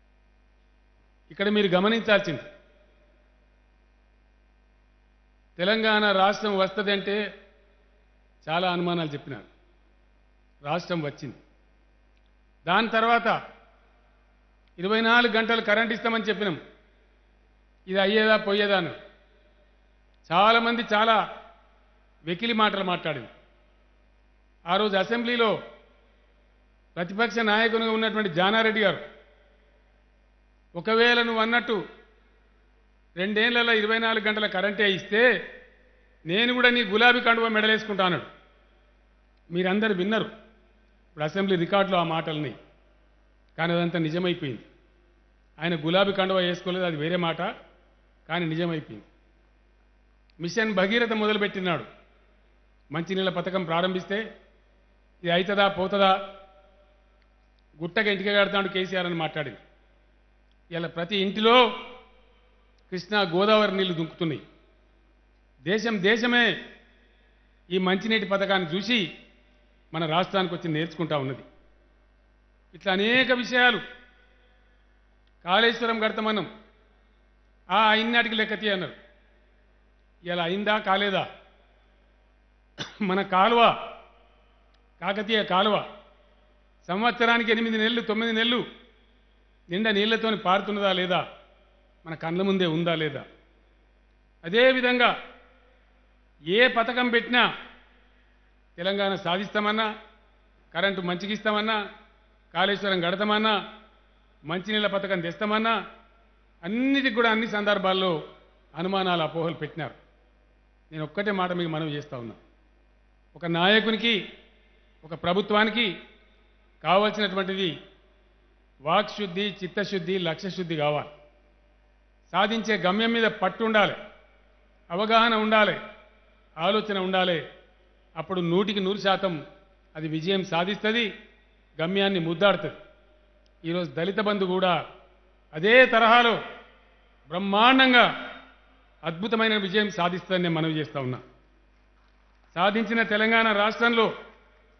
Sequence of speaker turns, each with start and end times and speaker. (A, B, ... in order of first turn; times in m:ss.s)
0:01.3-0:02.5 A
0:05.6-0:07.2 A
0:08.4-0:09.5 A
0:10.6-0:11.4 A
0:12.7-0:13.4 A
0:14.8-0:16.6 A
0:17.9-0:18.9 A
0:20.2-0:21.2 A
0:22.3-0:23.3 A
0:24.7-0:25.5 A
0:26.9-0:29.0 A
0:30.8-0:31.8 A
0:33.2-0:35.2 A
0:36.3-0:38.3 A
0:39.5-0:40.3 A
0:41.1-0:42.6 A
0:43.6-0:44.6 A
0:45.6-0:47.5 A
0:48.3-0:49.1 A
0:50.4-0:51.8 A
0:52.9-0:54.2 A
0:55.2-0:56.2 A
0:57.8-0:59.6 A
1:00.7-1:01.6 A
1:02.9-1:04.4 A
1:05.7-1:06.5 A
1:07.7-1:09.0 A
1:09.9-1:11.4 A
1:12.7-1:13.8 A
1:15.4-1:16.5 A
1:17.7-1:18.9 A
1:20.3-1:21.2 A
1:23.0-1:23.7 A
1:25.0-1:25.8 A
1:26.8-1:28.6 A
1:29.7-1:31.2 A
1:32.0-1:33.2 A
1:34.4-1:35.1 A
1:36.5-1:37.4 A
1:38.8-1:39.9 A
1:40.7-1:41.8 A
1:42.5-1:43.6 A
1:44.5-1:45.8 A
1:46.6-1:48.1 A
1:48.8-1:49.9 A
1:50.9-1:52.4 A
1:53.3-1:54.2 A
1:55.0-1:55.9 A
1:56.8-1:57.7 A
1:58.9-2:01.1 A
2:02.3-2:04.0 A
2:04.9-2:05.8 A
2:06.6-2:07.4 A
2:08.2-2:09.4 A
2:09.9-2:11.1 A
2:11.8-2:12.8 A
2:13.6-2:14.8 A
2:15.5-2:16.4 A
2:17.3-2:18.0 A
2:19.0-2:21.2 A
2:22.5-2:24.1 A